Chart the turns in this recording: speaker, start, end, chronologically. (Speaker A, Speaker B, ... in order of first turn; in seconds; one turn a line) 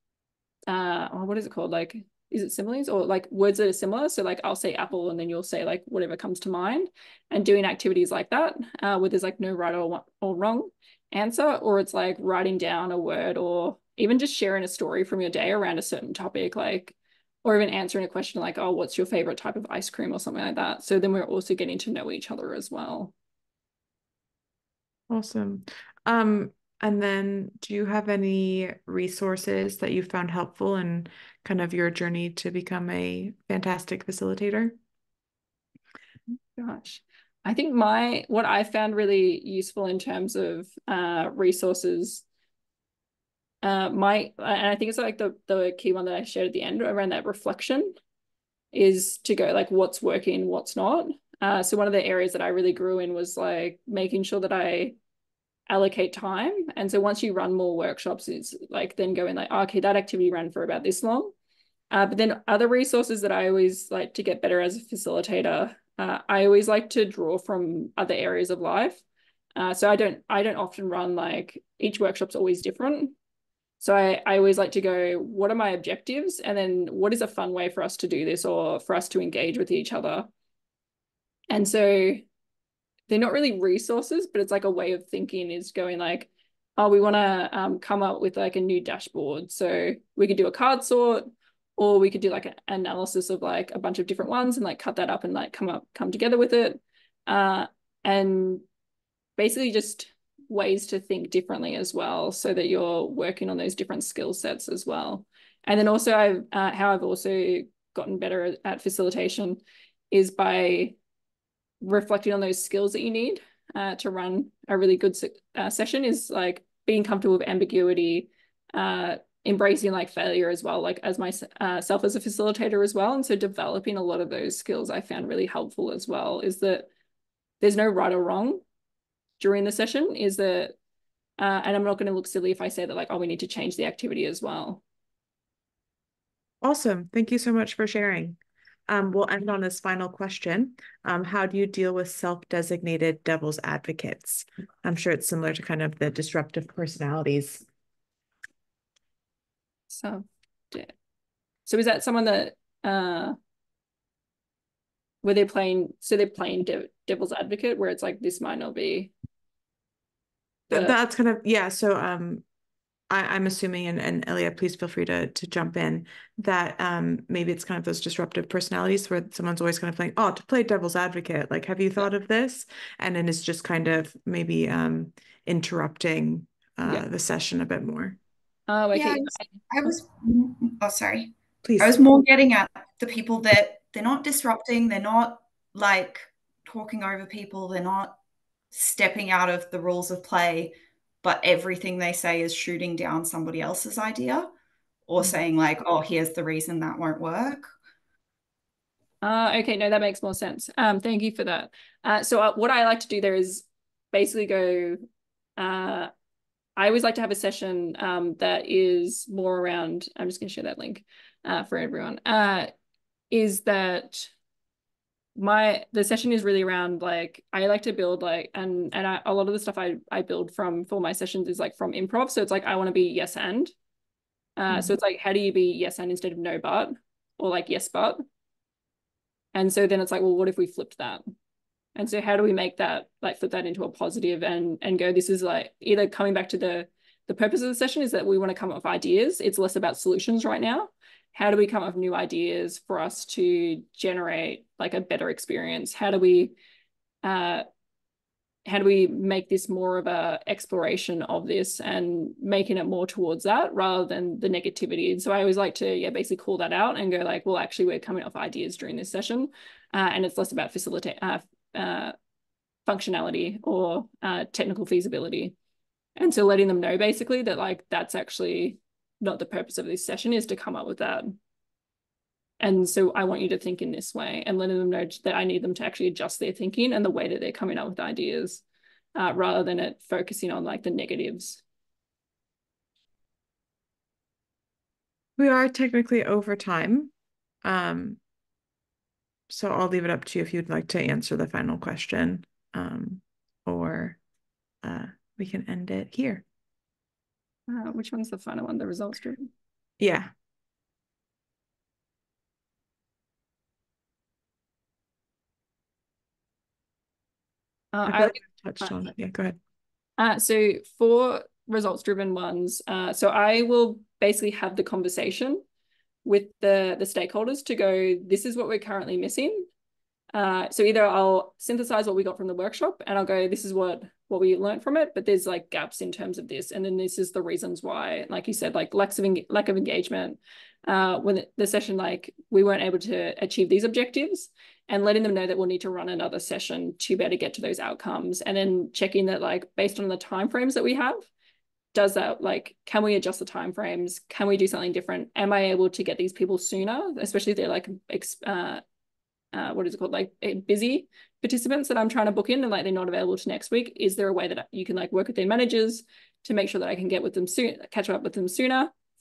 Speaker A: 0.7-23.1
Speaker B: 25.1-34.8
Speaker A: 36.5-42.2
Speaker A: 43.6-47.9
Speaker A: 48.7-55.0
Speaker A: 55.7-61.3
Speaker A: 61.9-69.0
Speaker A: 69.5-73.1
Speaker A: 73.8-80.3
Speaker A: 81.5-82.2
Speaker A: 83.1-98.6
Speaker A: 99.4-109.6
Speaker A: 110.1-111.0
Speaker A: 111.8-126.9
Speaker A: 127.6-128.6
Speaker A: 129.4-130.7
Speaker A: 131.4-134.8
Speaker B: 136.6-147.7
Speaker A: 149.9-150.9
Speaker A: 151.7-153.3
Speaker A: 155.2-159.1
Speaker A: 160.7-160.9
Speaker B: 160.7-162.4
Speaker B: 163.1-178.2
Speaker A: 178.7-179.4
Speaker C: 178.9-188.2
Speaker B: 181.6-182.0
Speaker C: 188.7-194.5
Speaker C: 195.1-197.7
Speaker A: 199.2-205.0
Speaker A: 205.6-206.1
Speaker A: 206.8-212.7
Speaker A: 213.3-214.3
Speaker A: 215.4-223.7
Speaker A: 224.6-228.2
Speaker A: 229.5-231.3
Speaker A: 231.9-246.5
Speaker A: 247.2-247.6
Speaker A: 248.7-262.1
Speaker A: 262.9-265.5
Speaker A: 266.2-271.3
Speaker A: 272.6-278.6
Speaker A: 279.1-281.6
Speaker B: 285.4-287.1
Speaker B: 287.6-288.2
Speaker B: 289.5-294.2
Speaker B: 294.8-296.4
Speaker A: 297.7-299.5
Speaker B: 300.0-300.3
Speaker A: 307.9-308.9
Speaker B: 308.0-309.6
Speaker A: 310.2-315.6
Speaker A: 316.2-319.7
Speaker A: 320.3-341.3
Speaker A: 341.9-348.8
Speaker A: 349.5-358.9